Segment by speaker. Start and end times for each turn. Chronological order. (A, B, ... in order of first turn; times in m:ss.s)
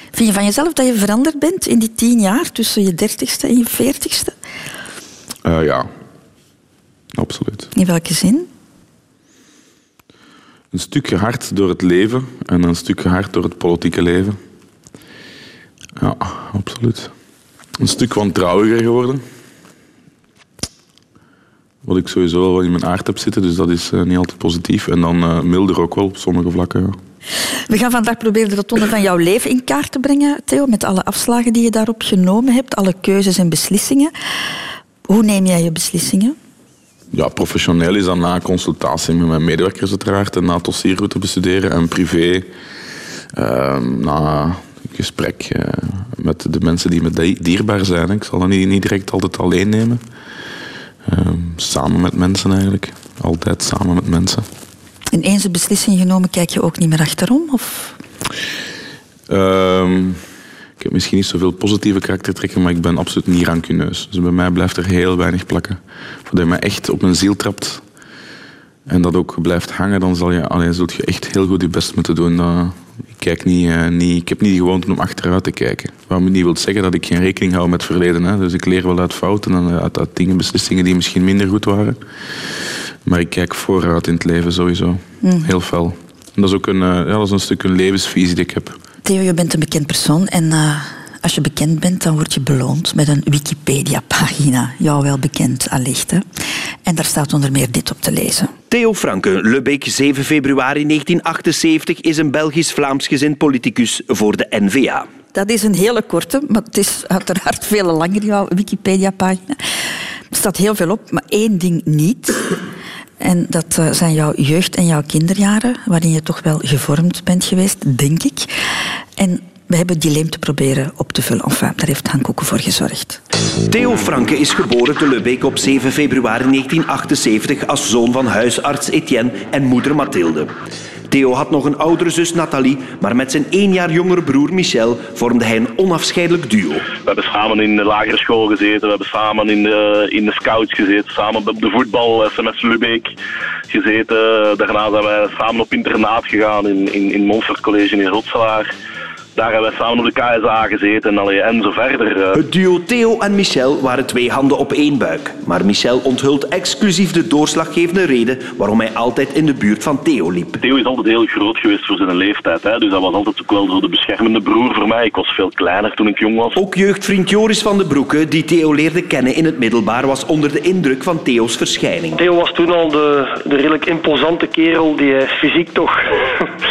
0:00.1-0:04.3 A
0:05.4-0:05.9 B
0:07.1-0:07.7 B
0:07.7-0:08.5 A
0:10.7-0:14.4 B
0:16.0-0:17.1 B
0:17.8-0:19.2 B
0:21.8-0:27.0 B
0:27.7-0:34.1 A
0:35.1-0:36.4 A
0:37.1-0:42.5 B
0:43.3-0:50.0 B
0:51.0-0:54.4 B
0:55.1-0:58.0 A
0:59.3-1:00.2 B
1:00.8-1:07.8 B
1:08.9-1:22.0 B
1:23.0-1:28.8 B
1:25.2-1:25.5 A
1:29.0-1:36.2 A
1:36.8-1:38.5 A
1:38.7-1:45.1 C
1:45.3-1:49.6 A
1:50.3-1:52.6 A
1:53.2-1:58.5 A
1:59.2-2:03.2 A
2:03.7-2:10.5 C
2:11.1-2:16.9 C
2:17.0-2:23.1 D
2:23.7-2:28.7 D
2:29.3-2:32.4 D
2:32.3-2:40.6 C
2:40.6-2:46.6 D
2:46.6-2:52.2 C
2:52.2-2:56.0 E